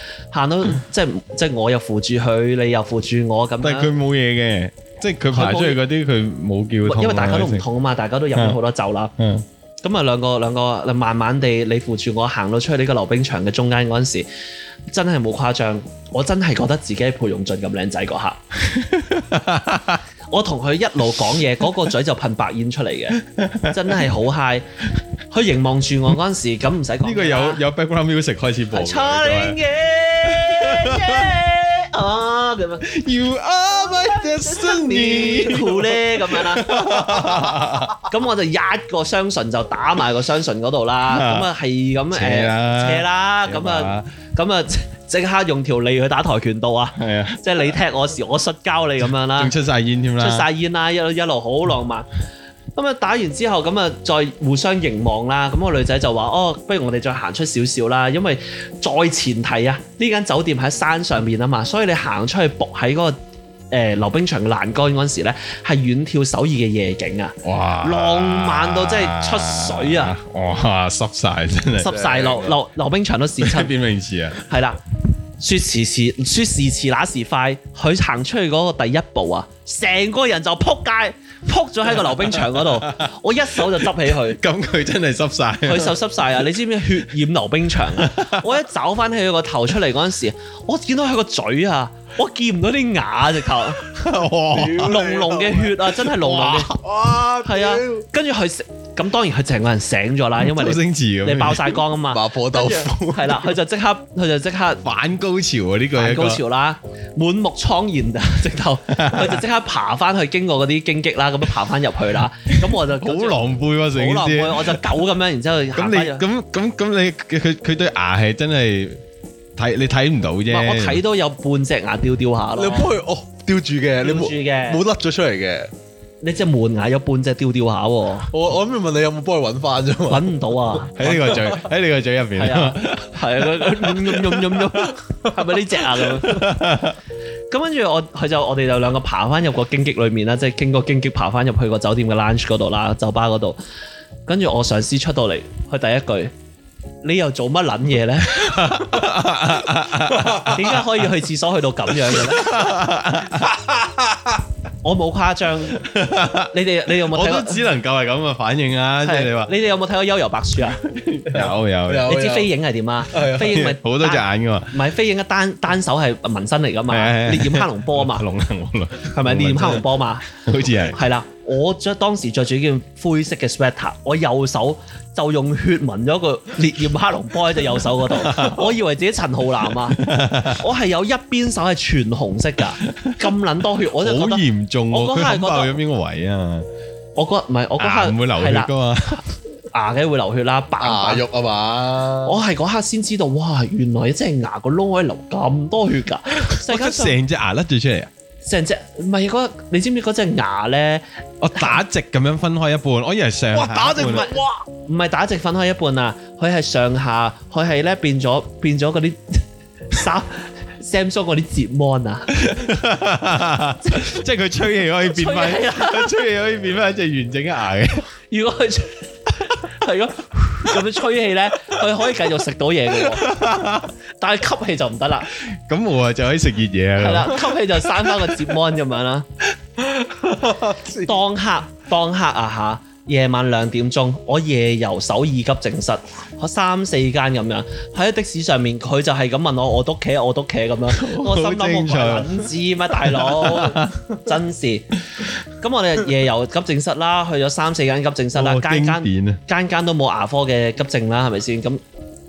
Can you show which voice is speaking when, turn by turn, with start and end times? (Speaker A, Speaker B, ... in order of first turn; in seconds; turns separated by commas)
Speaker A: 0.3-3.9, Speaker B: 3.6-7.7, Speaker A: 5.3-5.8, Speaker A: 6.8-9.1, Speaker B: 9.2-9.4, Speaker A: 9.8-14.2, Speaker A: 14.9-18.4, Speaker B: 18.7-20.0, Speaker A: 20.3-24.6, Speaker B: 23.1-24.1, Speaker A: 25.3-27.6, Speaker B: 27.0-29.6, Speaker A: 28.7-32.9, Speaker B: 30.2-31.4, Speaker B: 32.8-38.0, Speaker A: 34.0-49.5, Speaker B: 41.1-41.5, Speaker B: 42.1-44.1, Speaker B: 47.0-47.7, Speaker B: 49.0-50.5, Speaker A: 50.2-52.1, Speaker A: 52.7-63.1, Speaker A: 63.7-70.2, Speaker B: 67.4-72.6, Speaker A: 71.8-73.7, Speaker C: 71.8-72.5, Speaker B: 73.4-74.4, Speaker A: 74.5-74.8, Speaker A: 75.4-84.4, Speaker B: 82.0-86.2, Speaker A: 85.6-93.9, Speaker B: 87.8-88.6, Speaker B: 93.8-95.0, Speaker C: 94.6-95.5, Speaker A: 94.8-96.7, Speaker B: 95.8-96.7, Speaker C: 96.8-98.0, Speaker A: 97.4-104.8, Speaker B: 100.4-101.8, Speaker C: 102.1-103.2, Speaker B: 104.8-106.4, Speaker A: 105.9-116.2, Speaker B: 108.9-109.4, Speaker B: 112.6-114.8, Speaker B: 115.7-119.0, Speaker B: 119.6-121.0, Speaker A: 120.5-122.9, Speaker C: 122.6-125.7, Speaker A: 124.0-124.8, Speaker A: 126.2-128.3, Speaker C: 128.3-130.3, Speaker A: 130.1-131.4, Speaker B: 130.9-134.9, Speaker A: 132.3-136.7, Speaker B: 135.9-136.9, Speaker A: 137.5-143.6, Speaker A: 144.3-146.3, Speaker A: 147.0-149.1, Speaker B: 148.2-151.1, Speaker A: 150.4-152.6, Speaker B: 151.9-153.5, Speaker C: 153.5-154.4, Speaker A: 154.8-157.7, Speaker B: 155.7-159.6, Speaker A: 159.0-160.8, Speaker B: 160.6-162.2, Speaker C: 161.3-162.5, Speaker A: 162.1-168.3, Speaker C: 163.1-163.4, Speaker B: 163.2-164.8, Speaker B: 166.9-171.0, Speaker A: 169.1-170.2, Speaker A: 170.8-185.8, Speaker B: 178.0-178.8, Speaker B: 179.6-180.6, Speaker B: 182.8-183.3, Speaker B: 183.9-186.7, Speaker A: 187.1-188.7, Speaker B: 187.8-189.2, Speaker A: 189.7-191.2, Speaker C: 190.8-192.4, Speaker A: 192.2-197.2, Speaker B: 196.5-198.1, Speaker A: 198.4-201.0, Speaker B: 201.4-204.3, Speaker C: 203.5-204.6, Speaker A: 203.9-212.4, Speaker B: 212.3-218.1, Speaker A: 215.1-216.2, Speaker A: 218.3-223.3, Speaker B: 222.9-223.9, Speaker A: 224.2-225.3, Speaker B: 225.4-228.2, Speaker A: 227.0-229.2, Speaker C: 230.0-231.1, Speaker A: 231.0-244.8, Speaker B: 240.9-244.1, Speaker A: 245.6-251.8, Speaker B: 248.3-249.4